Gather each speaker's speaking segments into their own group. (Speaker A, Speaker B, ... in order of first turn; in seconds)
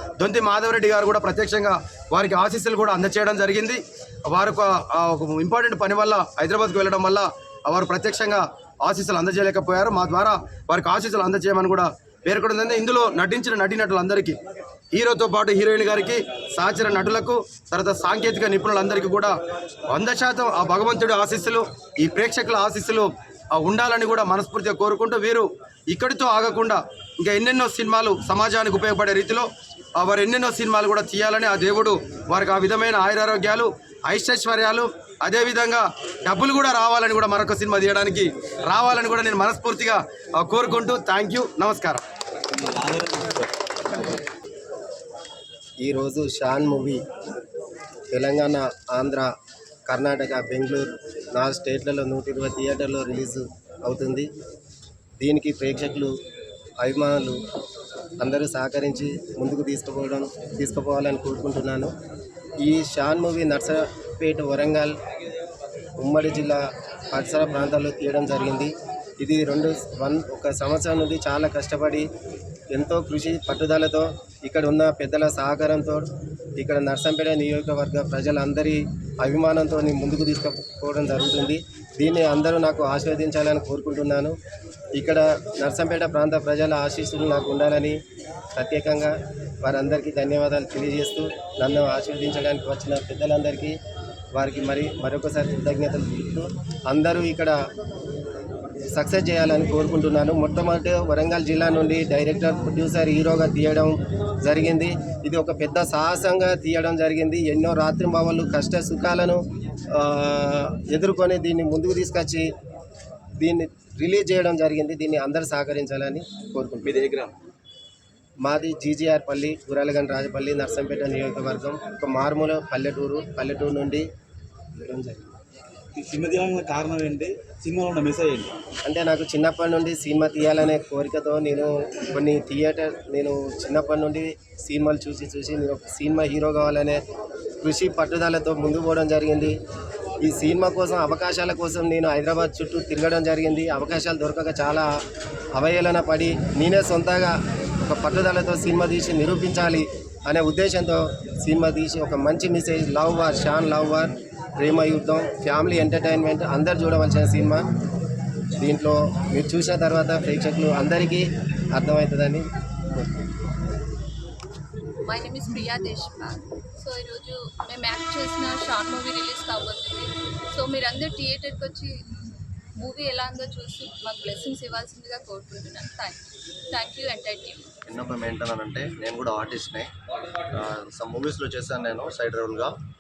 Speaker A: 0.2-14.4, 14.9-19.3, 19.9-42.0
Speaker B: 42.5-43.5, 116.9-117.3, 125.9-128.6
Speaker C: 45.8-47.0, 48.1-49.3, 49.9-54.3, 55.2-56.1, 56.8-57.4, 58.2-61.9, 62.6-65.0, 66.0-72.1, 72.7-84.4, 85.0-88.0, 88.5-93.8, 94.3-97.6, 99.0-112.5, 113.4-117.0, 118.5-124.1, 124.8-125.3, 128.8-137.0, 137.6-139.6, 140.2-144.9, 145.6-157.7, 158.6-163.1
Speaker D: 165.1-172.0, 172.8-177.7
Speaker E: 177.9-179.9, 180.5-182.8